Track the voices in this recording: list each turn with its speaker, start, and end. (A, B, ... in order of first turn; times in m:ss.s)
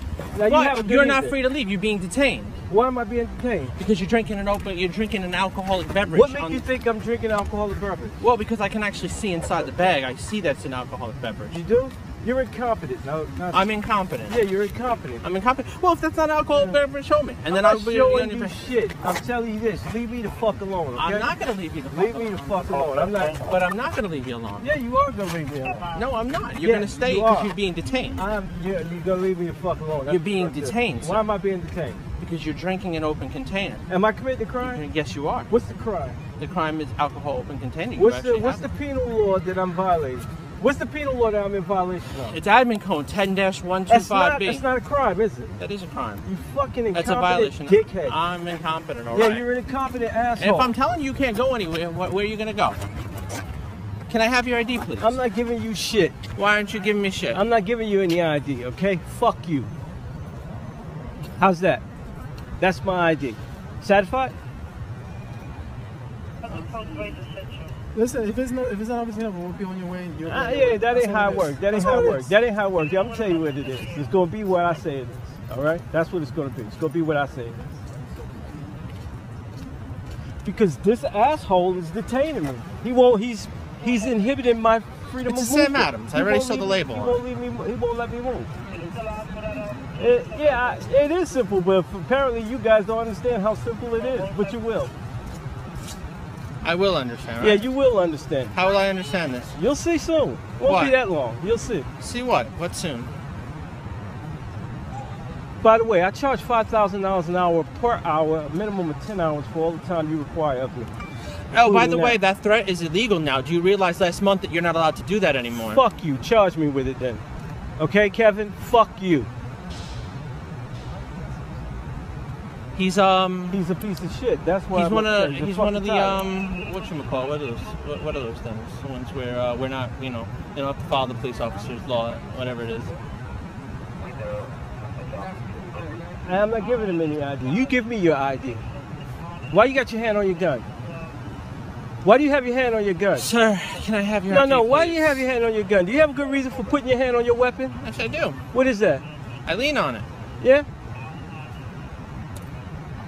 0:00.3-0:01.3 A
0:00.5-0:02.6 B
0:02.7-0:03.7 A
0:03.8-0:06.6 B
0:06.1-0:08.2 A
0:08.2-0:11.6 B
0:11.5-0:13.7 A
0:13.5-0:14.4 B
0:14.3-0:15.2 A
0:15.2-0:18.5 B
0:16.5-0:16.8 A
0:17.4-0:21.3 A
0:21.0-0:24.6 B
0:21.9-0:23.4 A
0:24.6-0:25.9 A
0:25.9-0:28.2 B
0:26.6-0:27.5 A
0:28.1-0:32.0 A
0:30.1-0:31.2 B
0:32.2-0:33.8 B
0:33.9-0:34.8 A
0:34.6-0:35.5 B
0:35.5-0:36.2 A
0:36.4-0:38.7 B
0:38.0-0:42.4 A
0:42.3-0:44.6 B
0:43.9-0:45.5 A
0:45.6-0:46.2 B
0:46.2-0:48.2 A
0:46.9-0:49.4 B
0:49.1-0:50.7 A
0:50.4-0:52.8 B
0:54.1-0:55.2 B
0:55.0-0:56.2 A
0:56.3-0:57.4 B
0:57.3-0:59.7 A
1:01.4-1:01.8 A
1:02.6-1:04.3 A
1:07.9-1:12.3 C
1:10.2-1:17.7 A
1:20.4-1:28.5 A
1:25.3-1:27.2 B
1:30.0-1:34.9 A
1:36.6-1:37.6 B
1:37.4-1:38.5 A
1:38.5-1:39.5 B
1:39.6-1:41.9 A
1:40.6-1:40.9 B
1:42.0-1:43.1 B
1:45.6-1:50.9 A
1:51.5-1:55.8 B
1:51.6-1:52.2 A
1:55.7-1:57.2 A
1:57.8-1:59.3 A
2:02.8-2:03.6 B
2:03.5-2:06.2 A
2:04.7-2:12.9 B
2:15.1-2:16.1 C
2:16.2-2:18.6 A
2:19.5-2:20.6 A
2:22.0-2:23.3 A
2:23.2-2:25.2 B
2:24.3-2:27.8 A
2:27.8-2:28.4 B
2:28.5-2:29.0 A
2:29.4-2:30.1 B
2:30.4-2:30.6 A